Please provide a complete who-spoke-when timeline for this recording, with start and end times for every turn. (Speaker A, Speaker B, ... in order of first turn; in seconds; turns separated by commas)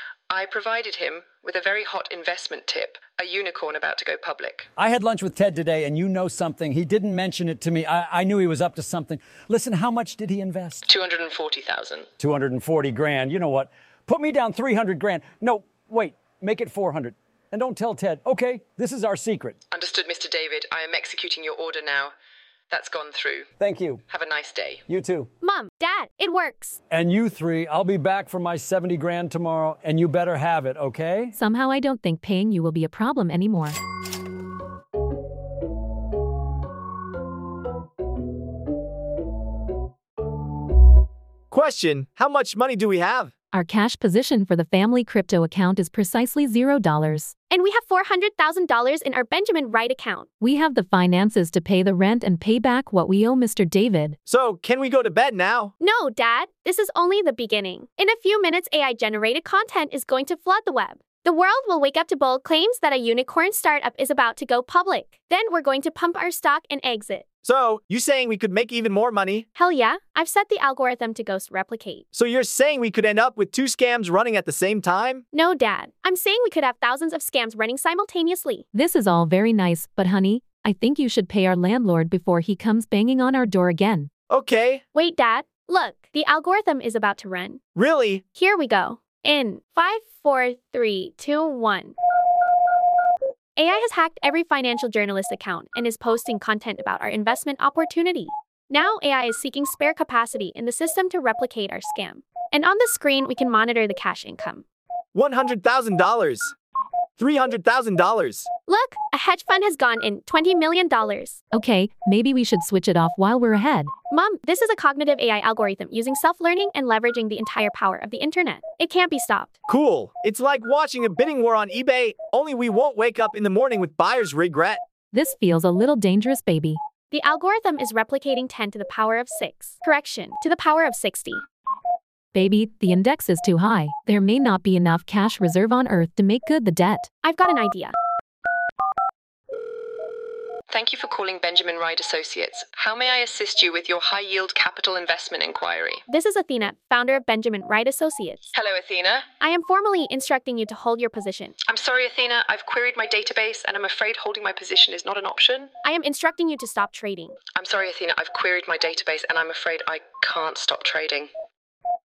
Speaker A: 0.3-4.7, Speaker B: 4.8-10.8, Speaker A: 10.9-12.1, Speaker B: 12.2-19.6, Speaker A: 19.7-22.1, Speaker A: 22.7-23.5, Speaker B: 23.6-24.0, Speaker A: 24.1-24.8, Speaker B: 24.9-25.3, Speaker C: 25.4-26.8, Speaker B: 26.9-31.3, Speaker D: 31.3-33.8, Speaker E: 41.5-43.3, Speaker D: 43.5-47.3, Speaker C: 47.5-50.3, Speaker D: 50.4-54.2, Speaker E: 54.2-55.7, Speaker C: 55.8-67.2, Speaker E: 67.4-69.5, Speaker C: 69.5-72.0, Speaker E: 72.1-75.2, Speaker C: 75.3-78.7, Speaker D: 78.7-84.1, Speaker E: 84.3-84.8, Speaker C: 84.9-87.6, Speaker E: 87.8-88.2, Speaker C: 88.3-92.0, Speaker C: 93.6-104.6, Speaker E: 105.1-106.5, Speaker E: 107.2-108.5, Speaker C: 108.7-111.4, Speaker D: 111.5-113.9, Speaker C: 114.1-119.5, Speaker E: 119.7-124.8, Speaker D: 125.1-126.8, Speaker C: 127.1-131.4, Speaker D: 132.3-137.1, Speaker C: 137.2-137.9, Speaker A: 140.7-146.0, Speaker C: 146.1-148.5, Speaker A: 148.5-149.3, Speaker C: 149.4-151.6, Speaker A: 151.6-155.8, Speaker C: 155.8-157.4, Speaker A: 157.5-161.3